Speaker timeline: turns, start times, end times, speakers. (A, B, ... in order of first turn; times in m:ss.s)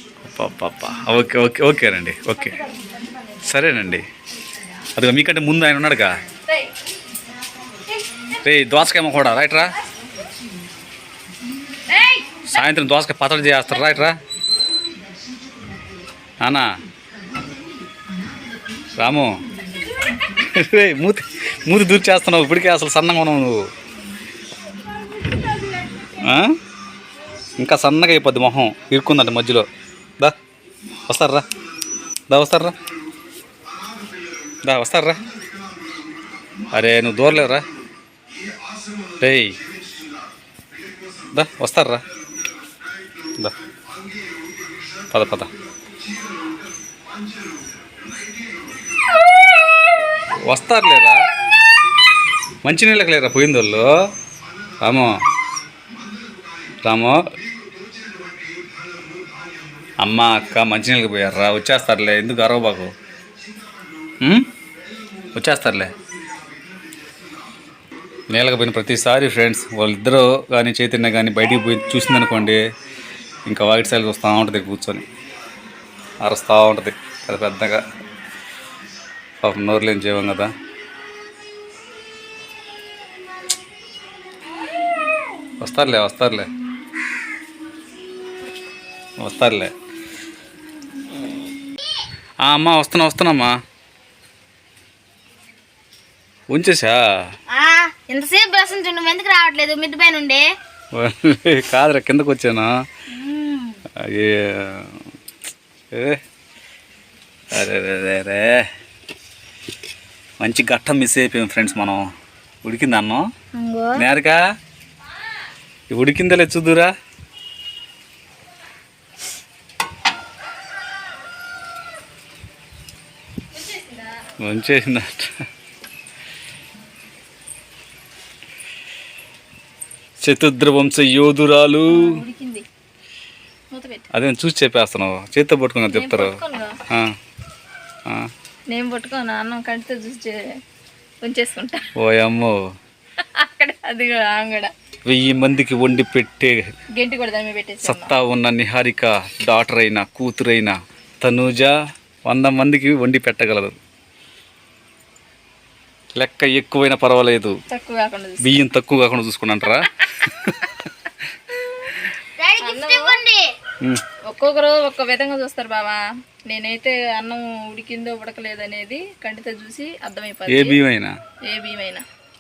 0:00.2-0:02.6 A
0:02.3-0:03.6 B
0:03.4-0:04.1 A
0:05.0-0:06.2 A
0:06.4-0:06.7 B
0:07.8-0:08.4 C
0:08.4-0:09.7 A
0:11.9-0:12.6 B
0:12.5-0:14.2 A
0:16.4-0:16.7 A
0:19.0-0:19.4 A
0:20.4-0:23.7 A
0:25.1-0:26.1 B
0:26.2-0:26.6 A
0:27.6-0:29.7 A
0:31.1-0:31.4 A
0:32.3-0:32.8 A
0:34.6-0:35.2 A
0:36.7-0:37.6 A
0:39.2-0:39.6 A
0:41.3-0:42.0 A
0:45.1-0:45.5 A
0:50.4-0:51.3 A
0:52.6-0:53.9 A
0:54.8-0:55.2 A
0:56.8-0:57.2 A
1:00.0-1:02.9 A
1:04.2-1:04.5 A
1:05.3-1:05.9 A
1:08.3-1:12.6 A
1:13.5-1:15.0 A
1:16.2-1:17.8 A
1:19.4-1:20.5 A
1:25.6-1:26.5 A
1:29.2-1:29.7 A
1:32.4-1:33.6 A
1:36.5-1:37.0 A
1:37.5-1:40.5 C
1:40.9-1:42.7 A
1:43.1-1:43.8 C
1:44.0-1:45.0 A
1:45.9-1:46.2 A
1:47.5-1:48.6 A
1:50.4-1:52.1 A
1:52.6-1:53.3 A
1:53.5-1:54.0 C
1:54.0-1:54.4 A
1:55.0-1:55.4 B
1:55.9-1:56.9 A
2:03.5-2:04.1 B
2:04.4-2:05.4 A
2:10.2-2:12.2 A
2:11.9-2:12.6 B
2:13.7-2:14.1 B
2:14.1-2:16.4 A
2:15.9-2:16.8 B
2:16.9-2:17.2 A
2:18.7-2:20.5 B
2:21.2-2:21.9 B
2:22.0-2:22.6 A
2:23.2-2:24.7 B
2:25.0-2:26.7 A
2:27.0-2:28.1 B
2:27.8-2:33.8 A
2:36.2-2:37.6 A
2:37.7-2:38.6 B
2:38.4-2:40.7 A
2:41.6-2:42.0 B
2:42.4-2:43.4 C
2:42.6-2:43.2 B
2:44.3-2:50.8 B
2:50.5-2:51.2 A
2:51.4-2:52.0 B